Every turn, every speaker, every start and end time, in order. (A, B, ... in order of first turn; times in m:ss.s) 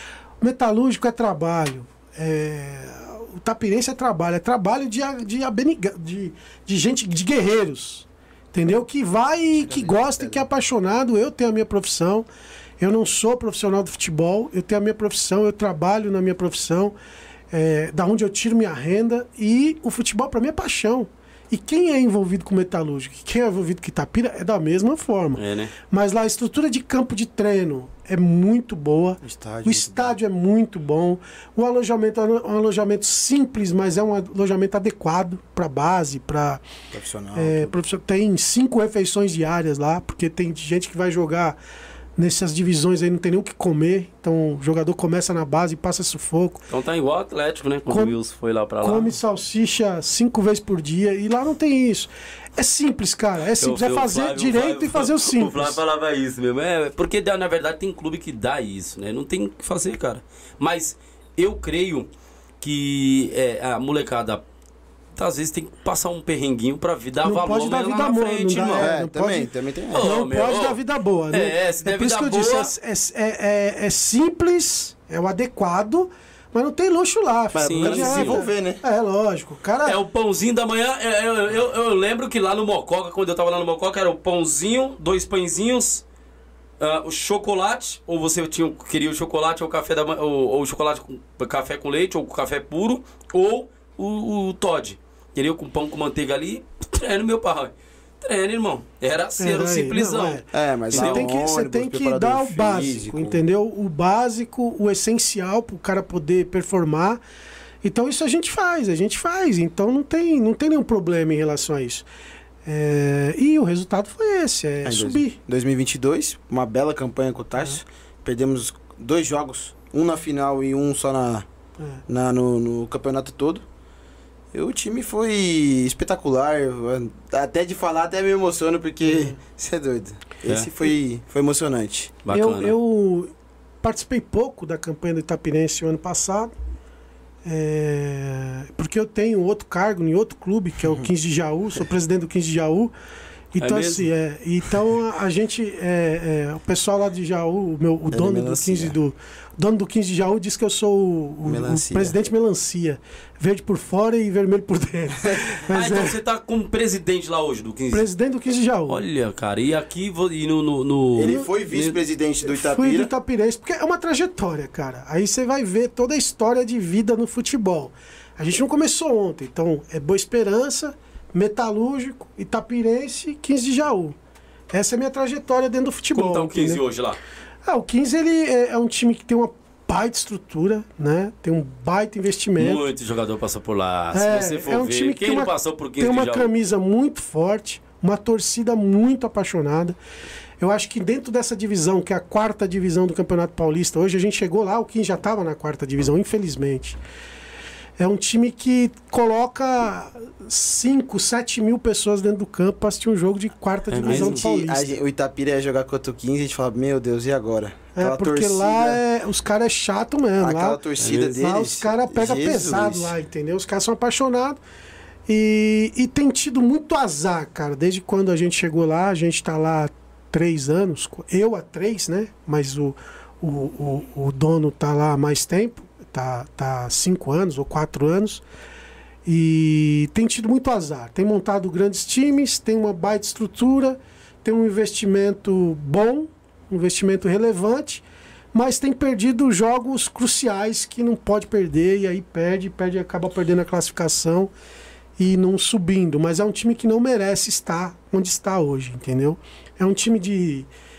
0:00.4-0:12.2 A
0:09.6-0:10.4 B
0:12.8-0:16.9 A
0:17.5-0:36.6 A
0:25.4-0:25.7 C
0:29.2-0:30.2 B
0:36.9-0:37.7 B
0:37.3-0:41.6 A
0:42.2-0:46.6 A
0:46.7-0:49.2 C
0:47.9-0:48.2 A
0:48.8-0:55.8 A
0:53.6-1:02.1 C
1:02.6-1:04.4 C
1:05.2-1:08.9 C
1:07.2-1:20.0 A
1:08.5-1:10.1 B
1:09.9-1:10.8 C
1:11.3-1:12.7 C
1:17.5-1:18.8 B
1:17.6-1:18.4 C
1:19.8-1:26.0 C
1:26.8-1:41.4 C
1:39.4-1:47.2 A
1:40.5-1:43.4 B
1:47.8-1:52.0 A
1:52.6-1:55.4 A
1:54.8-2:01.5 B
2:02.1-2:03.6 B
2:04.5-2:12.1 B
2:09.0-2:09.4 A
2:12.2-2:12.7 C
2:12.3-2:13.3 A
2:13.8-2:16.5 A
2:17.4-2:22.9 A
2:23.5-2:36.2 A
2:23.6-2:24.1 C
2:28.1-2:28.9 B
2:31.4-2:32.1 B
2:35.7-2:38.1 C
2:37.9-2:39.0 A
2:38.9-2:42.0 C
2:41.2-2:43.1 B
2:42.4-2:54.2 A
2:54.7-2:56.8 A
2:56.1-2:57.2 C
2:57.6-3:02.8 A
3:02.6-3:06.5 C
3:04.1-3:10.0 A
3:10.6-3:17.0 A
3:18.0-3:24.9 A
3:23.9-3:24.4 C
3:24.0-3:29.0 B
3:28.0-3:30.8 A
3:30.4-3:33.1 B
3:31.0-3:31.3 C
3:31.3-3:34.6 A
3:35.3-3:48.4 A
3:49.2-4:04.5 A
4:05.2-4:10.7 A